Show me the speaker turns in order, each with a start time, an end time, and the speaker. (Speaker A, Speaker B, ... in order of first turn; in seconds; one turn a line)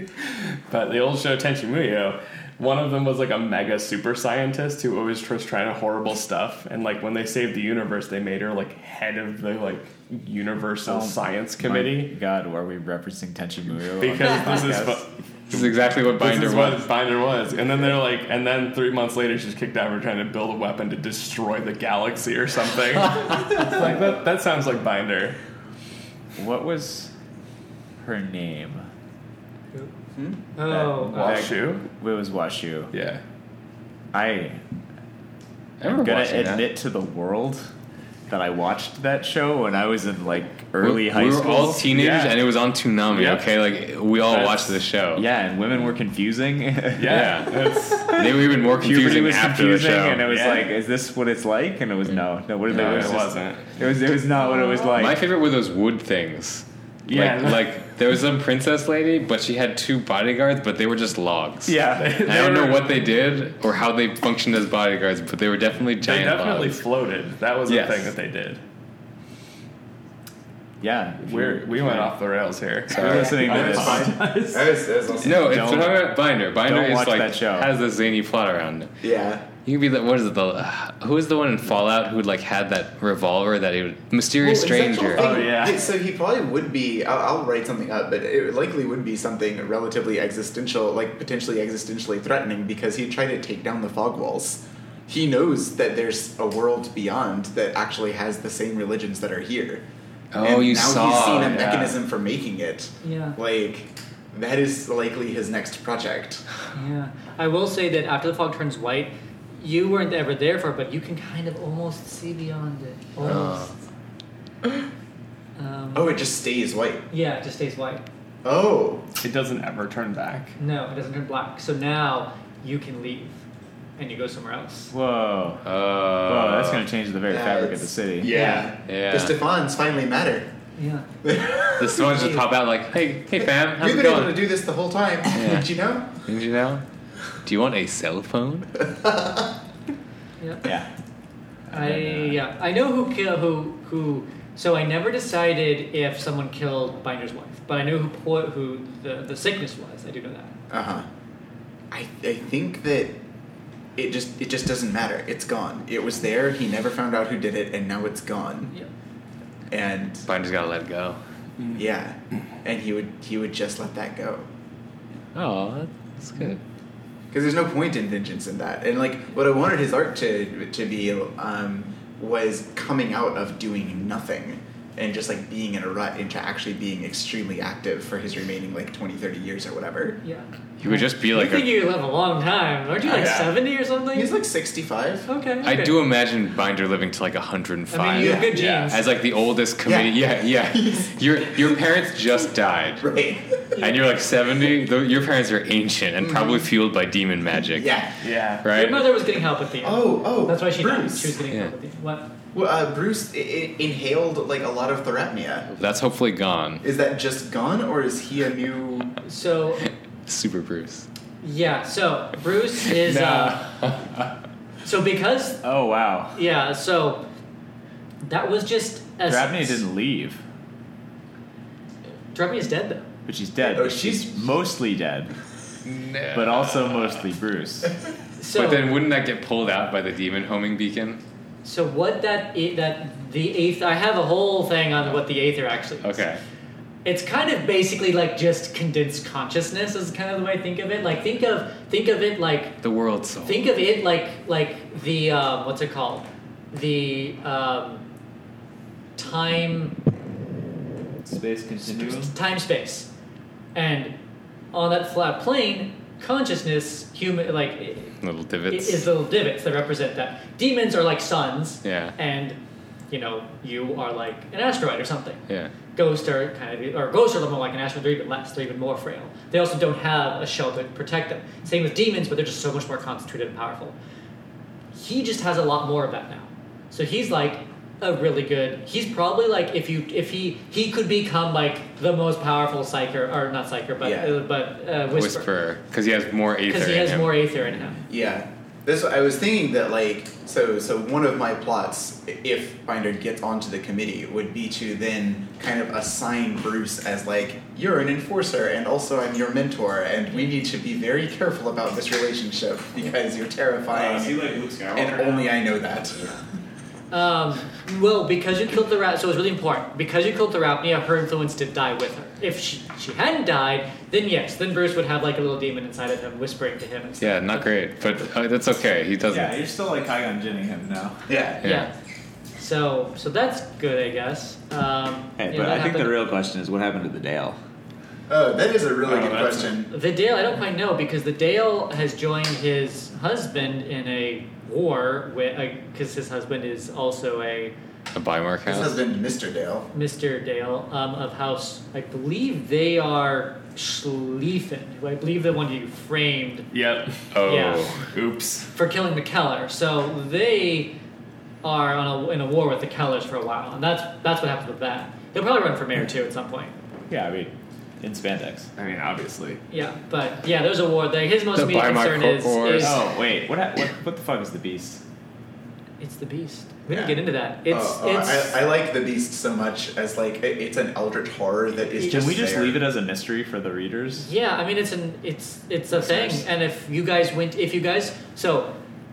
Speaker A: 0.2-12.1
Speaker B: 10.8-15.0
Speaker A: 14.0-25.4
Speaker C: 15.5-16.8
Speaker B: 26.4-27.1
Speaker B: 28.0-28.9
Speaker D: 30.1-30.4
Speaker E: 30.6-31.5
Speaker B: 30.7-32.9
Speaker A: 30.9-31.9
Speaker A: 32.9-33.2
Speaker B: 34.1-34.6
Speaker C: 35.8-36.7
Speaker B: 35.8-37.7
Speaker B: 38.3-41.9
Speaker C: 40.8-45.2
Speaker A: 41.9-42.4
Speaker A: 43.1-43.5
Speaker A: 44.2-44.8
Speaker B: 45.1-55.2
Speaker A: 47.0-48.2
Speaker C: 47.1-50.2
Speaker A: 50.2-50.7
Speaker C: 52.7-53.2
Speaker A: 52.7-53.8
Speaker E: 54.4-55.0
Speaker C: 54.9-66.8
Speaker A: 57.1-57.7
Speaker B: 61.6-62.2
Speaker A: 61.9-63.0
Speaker A: 66.0-68.6
Speaker B: 67.7-68.1
Speaker B: 70.8-72.1
Speaker A: 71.2-74.7
Speaker C: 72.9-73.6
Speaker B: 72.9-74.6
Speaker D: 73.4-75.7
Speaker B: 75.2-76.1
Speaker C: 75.2-78.9
Speaker B: 76.6-77.7
Speaker D: 79.0-79.5
Speaker C: 79.6-85.3
Speaker D: 84.4-99.8
Speaker A: 85.1-85.8
Speaker C: 100.3-101.7
Speaker D: 100.4-106.4
Speaker A: 101.3-101.9
Speaker E: 103.0-103.4
Speaker E: 106.7-113.7
Speaker C: 113.2-113.7
Speaker E: 115.5-116.2
Speaker D: 115.9-117.0
Speaker E: 117.1-118.0
Speaker D: 118.4-119.1
Speaker A: 119.2-120.6
Speaker E: 120.6-123.4
Speaker E: 124.0-124.9
Speaker B: 124.9-125.6
Speaker C: 125.6-126.9
Speaker B: 126.2-128.3
Speaker D: 127.3-130.5
Speaker E: 128.3-128.6
Speaker C: 128.8-129.3
Speaker E: 130.8-131.1
Speaker D: 131.2-132.2
Speaker C: 131.8-134.4
Speaker E: 132.1-132.4
Speaker D: 133.4-136.2
Speaker C: 135.3-135.7
Speaker C: 136.2-136.8
Speaker C: 137.4-138.7
Speaker D: 138.8-139.5
Speaker E: 140.4-140.7
Speaker E: 141.7-150.5
Speaker B: 141.7-142.3
Speaker D: 150.7-151.1
Speaker D: 151.9-153.2
Speaker D: 153.9-158.7
Speaker D: 159.7-160.3
Speaker C: 160.3-161.2
Speaker D: 161.7-164.5
Speaker C: 165.3-166.6
Speaker D: 167.3-180.2
Speaker E: 180.2-184.3
Speaker C: 180.8-181.7
Speaker A: 183.0-183.5
Speaker D: 184.1-185.3
Speaker E: 185.3-186.0
Speaker C: 185.6-193.1
Speaker E: 187.9-189.0
Speaker D: 188.1-188.5
Speaker A: 188.5-188.9
Speaker D: 189.8-191.8
Speaker D: 193.0-193.8
Speaker C: 193.8-197.9
Speaker D: 196.2-196.7
Speaker D: 197.7-198.2
Speaker A: 198.2-198.7
Speaker C: 198.6-199.1
Speaker E: 198.7-202.3
Speaker D: 199.8-201.3
Speaker D: 202.5-205.7
Speaker C: 205.7-206.8
Speaker D: 206.8-209.1
Speaker E: 209.2-209.8
Speaker C: 210.2-211.1
Speaker E: 211.4-213.6
Speaker C: 212.8-214.3
Speaker E: 214.8-215.6
Speaker B: 215.6-216.4
Speaker E: 216.3-217.2
Speaker E: 218.2-219.8
Speaker B: 219.3-220.4
Speaker E: 222.3-223.1
Speaker B: 223.2-225.3
Speaker D: 223.6-224.5
Speaker C: 225.8-227.2
Speaker B: 226.3-227.9
Speaker E: 228.4-228.9
Speaker C: 228.5-231.2
Speaker E: 231.6-236.2
Speaker C: 236.0-236.4
Speaker E: 237.0-242.8
Speaker C: 242.8-243.7
Speaker E: 243.4-248.0
Speaker E: 249.2-250.0
Speaker B: 251.2-252.3
Speaker E: 251.8-253.1
Speaker E: 253.7-254.1
Speaker E: 254.7-258.1
Speaker C: 258.2-259.1
Speaker E: 258.7-262.6
Speaker C: 261.8-262.1
Speaker E: 263.1-265.4
Speaker E: 265.9-273.9
Speaker E: 274.9-285.5
Speaker D: 284.0-284.4
Speaker C: 285.1-287.3
Speaker E: 286.7-288.0
Speaker D: 288.1-306.4
Speaker B: 303.9-305.5
Speaker E: 307.1-318.2
Speaker C: 317.2-319.6
Speaker B: 319.3-321.2
Speaker D: 321.3-321.6
Speaker C: 321.6-321.9
Speaker E: 321.6-321.9
Speaker E: 322.6-326.2
Speaker B: 325.4-327.6
Speaker D: 328.3-329.9
Speaker A: 329.1-329.7
Speaker E: 329.9-337.7
Speaker C: 338.1-339.0
Speaker D: 338.6-339.9
Speaker E: 339.9-346.7
Speaker A: 346.7-347.3
Speaker C: 347.3-348.1
Speaker E: 347.4-347.9
Speaker A: 348.1-348.7
Speaker E: 348.7-350.9
Speaker E: 351.6-356.7
Speaker B: 357.1-358.7
Speaker A: 358.8-359.6
Speaker E: 359.7-363.0
Speaker C: 361.5-363.0
Speaker B: 362.8-365.0
Speaker E: 366.0-368.6
Speaker D: 366.9-372.8
Speaker B: 372.0-374.3
Speaker E: 374.2-378.8
Speaker B: 375.9-376.4